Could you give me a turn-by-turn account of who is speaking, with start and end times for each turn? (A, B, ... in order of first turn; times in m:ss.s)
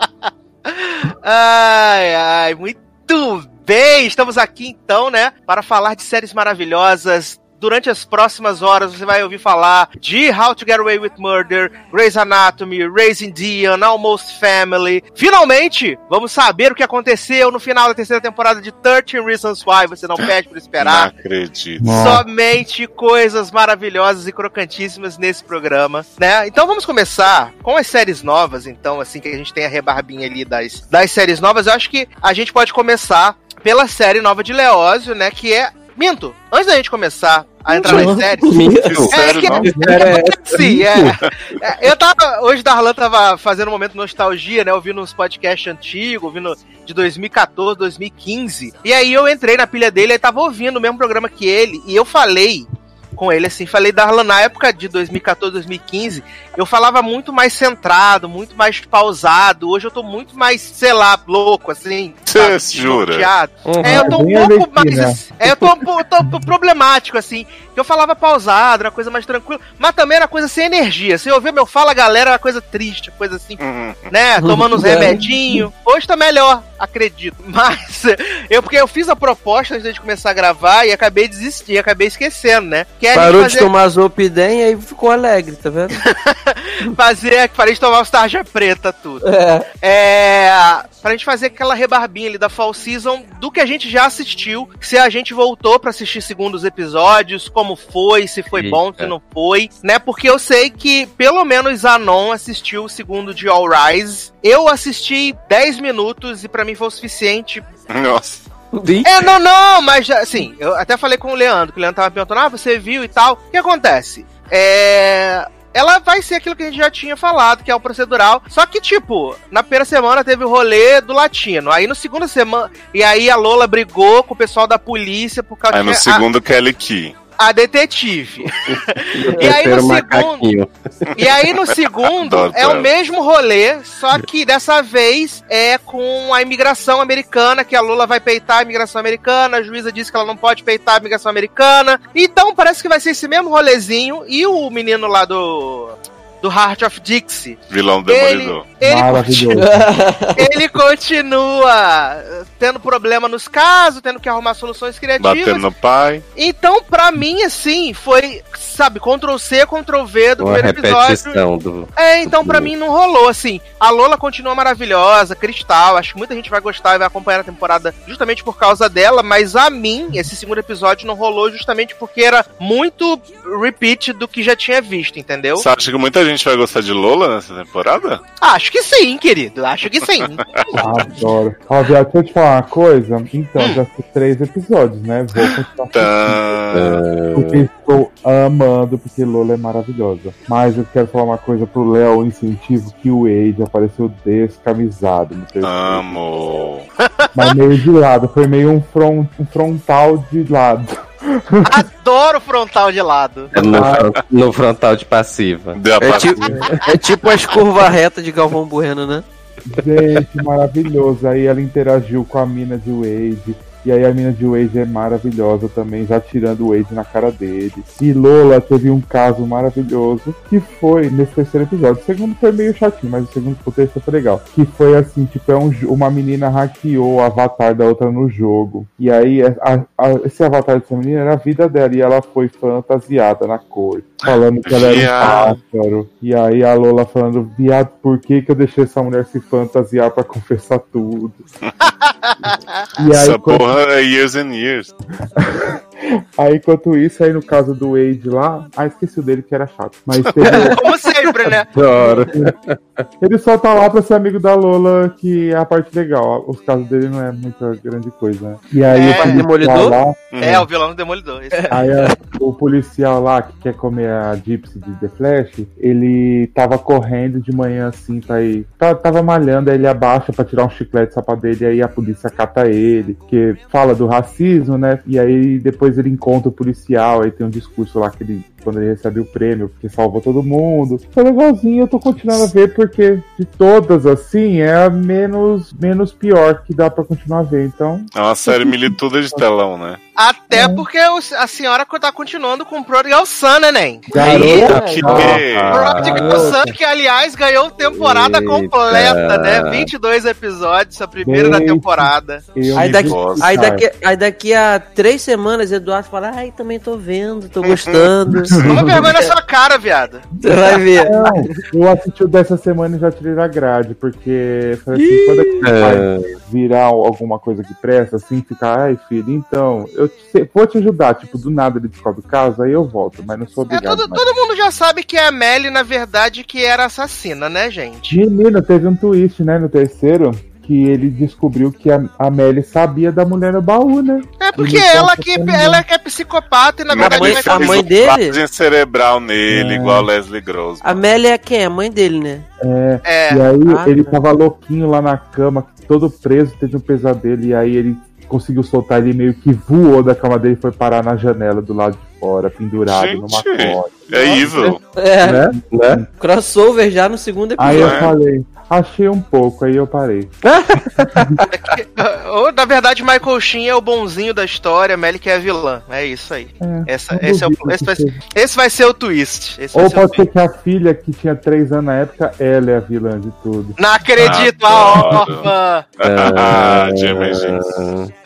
0:00.6-0:21.1 A
0:20.8-0:22.1 B
0:21.8-0:22.2 C
0:21.9-0:38.6 A
0:37.8-0:39.0 D
0:37.8-0:40.8 E
0:38.8-0:39.8 B
0:39.1-1:23.7 A
0:39.6-0:40.0 C
1:02.2-1:03.3 B
1:03.6-1:04.2 E
1:03.8-1:05.3 C
1:13.6-1:14.1 B
1:14.4-1:15.2 D
1:23.1-1:26.0 D
1:26.0-1:29.2 A
1:29.2-1:29.6 D
1:29.8-1:47.7 A
1:38.5-1:39.1 E
1:47.9-1:48.4 B
1:48.8-1:49.2 E
1:49.0-2:06.2 A
2:05.7-2:07.2 B
2:07.4-2:10.4 A
2:09.2-2:11.1 E
2:11.2-2:29.7 A
2:12.0-2:12.9 B
2:27.7-2:28.6 B
2:28.8-2:29.8 C
2:29.6-2:30.4 D
2:30.4-2:35.6 A
2:35.2-2:36.2 B
2:36.4-2:41.4 A
2:40.4-2:42.7 E
2:42.0-2:55.6 A
2:55.5-2:58.2 B
2:58.4-3:00.4 A
3:00.8-3:01.1 E
3:00.8-3:06.4 C
3:05.4-3:07.0 B
3:06.7-3:07.6 E
3:07.3-3:16.2 C
3:15.6-3:16.9 B
3:17.0-3:17.5 A
3:17.3-3:21.8 C
3:21.6-3:23.5 A
3:23.5-3:25.8 E
3:23.6-3:23.9 C
3:23.7-3:24.2 B
3:25.7-3:26.7 B
3:26.0-3:29.2 D
3:26.4-3:26.8 C
3:29.7-4:01.4 C
3:54.6-3:55.6 B
4:01.8-4:02.6 A
4:03.0-4:03.6 C
4:03.1-4:04.9 B
4:05.4-4:10.8 C
4:10.4-4:10.8 E
4:10.6-4:12.1 A
4:11.7-4:13.0 E
4:13.2-4:20.3 C
4:18.9-4:19.4 A
4:19.0-4:20.0 D
4:20.3-4:20.6 B
4:20.4-4:21.8 A
4:21.7-4:48.9 C
4:48.1-4:50.0 B
4:50.2-4:54.5 A
4:50.5-4:50.9 C
4:54.1-4:56.7 C
4:54.1-4:56.6 E
4:54.2-4:55.1 D
4:55.1-4:56.5 B
4:55.7-5:02.5 A
4:57.8-4:59.9 E
5:01.2-5:03.8 C
5:02.7-5:03.5 B
5:02.8-5:08.6 D
5:07.6-5:09.1 B
5:08.4-5:09.0 C
5:08.6-5:10.3 A
5:10.4-5:11.6 D
5:11.0-5:24.2 C
5:14.9-5:15.7 D
5:15.6-5:16.3 E
5:23.7-5:28.2 A
5:28.1-5:35.8 C
5:34.4-5:37.9 A
5:36.9-5:41.0 B
5:37.0-5:38.4 D
5:39.5-5:40.1 C
5:40.8-5:42.5 D
5:42.6-5:54.8 C
5:43.0-5:43.4 A
5:43.6-5:44.2 D
5:52.9-5:54.8 B
5:55.0-5:55.5 D
5:55.2-5:56.0 E
5:55.7-5:56.0 C
5:56.2-5:58.0 D
5:57.6-6:00.4 C
5:57.7-5:58.1 B
6:00.4-6:01.5 E
6:01.5-6:10.2 A
6:06.6-6:08.2 C
6:09.7-6:13.8 C
6:13.8-6:15.9 A
6:14.2-6:17.8 B
6:16.0-6:18.1 E